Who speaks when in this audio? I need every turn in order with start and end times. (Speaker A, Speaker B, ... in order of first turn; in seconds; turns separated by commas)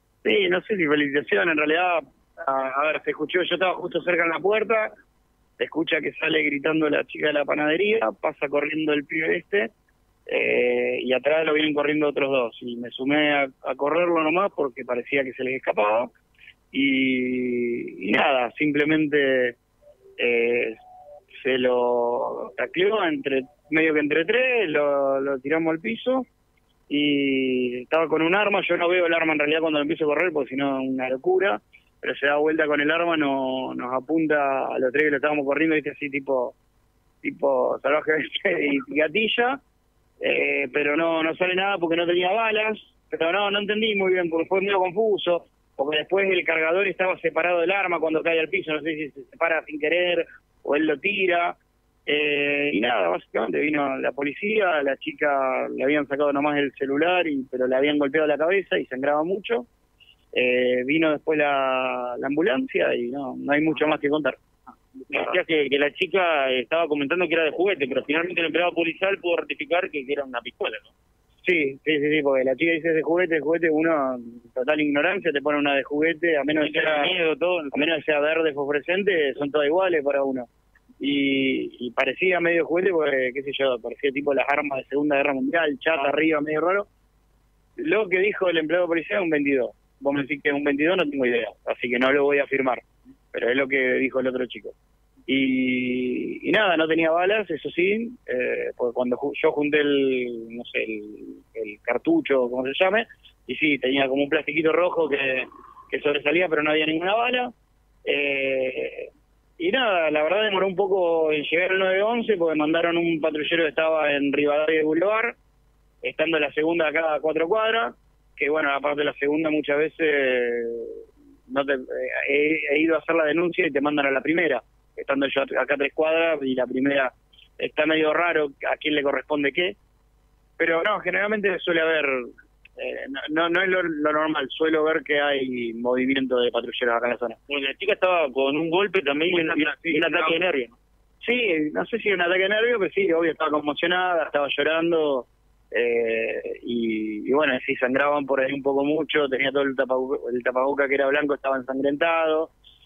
Speaker A: 0.2-4.9, Speaker A: 5.6-9.7, Speaker A: 10.3-16.1, Speaker A: 16.7-19.6, Speaker A: 20.2-20.8, Speaker A: 21.4-26.3, Speaker A: 26.9-36.5, Speaker A: 37.2-39.6, Speaker A: 40.2-59.7, Speaker A: 60.3-64.4, Speaker A: 65.1-65.4, Speaker B: 65.1-70.9, Speaker A: 71.4-77.1, Speaker B: 76.5-77.7, Speaker A: 77.7-80.5, Speaker A: 81.0-86.9, Speaker A: 87.8-94.8, Speaker A: 95.3-107.5, Speaker A: 108.0-115.4, Speaker A: 116.0-129.8, Speaker A: 130.6-137.4, Speaker B: 137.5-140.8, Speaker A: 139.3-140.3, Speaker A: 141.2-152.5